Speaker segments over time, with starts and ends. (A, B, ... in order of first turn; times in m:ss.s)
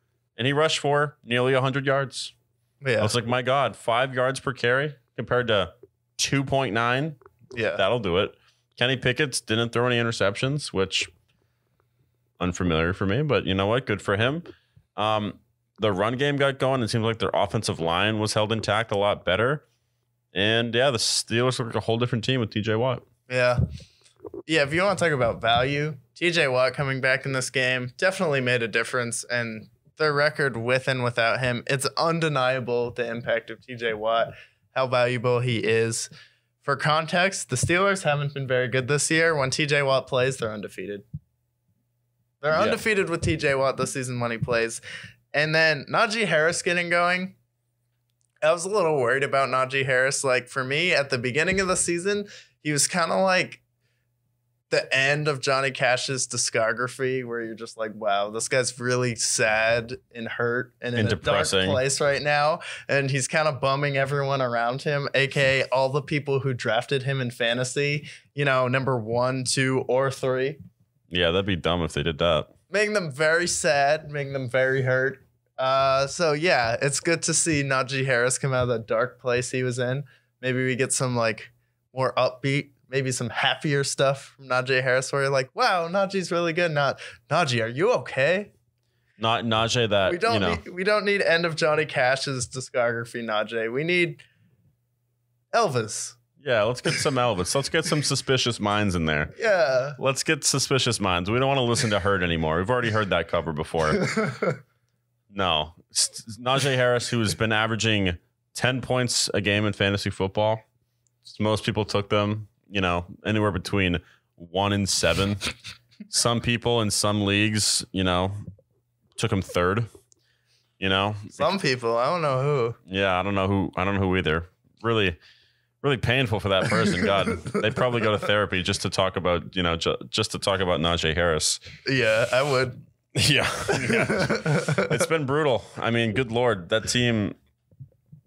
0:00.4-0:02.3 A
0:02.8-0:03.1 B
0:03.0-0:07.2 A
0:07.5-0:07.8 B
0:07.8-0:11.1 A
0:12.4-0:19.6 A
0:20.3-0:23.0 A
0:23.3-0:23.6 B
0:24.5-0:36.1 B
0:36.6-0:41.0 B
0:42.4-0:44.8 B
0:42.5-0:42.8 A
0:45.3-0:47.4 B
0:48.4-0:53.6 B
0:54.7-1:10.6 B
1:01.0-1:01.8 A
1:11.1-1:12.5 A
1:12.7-1:28.5 B
1:29.2-1:30.6 A
1:30.1-1:34.2 B
1:35.5-1:36.2 B
1:36.4-1:39.4 A
1:39.4-1:40.0 B
1:40.0-1:44.1 A
1:44.1-1:44.5 B
1:45.3-1:50.6 A
1:51.2-1:55.5 A
1:56.1-1:58.4 A
1:59.2-1:59.9 A
2:00.8-2:01.5 A
2:01.4-2:02.8 B
2:02.9-2:05.2 A
2:05.8-2:11.6 A
2:11.9-2:12.8 B
2:13.2-2:17.4 A
2:13.8-2:15.0 B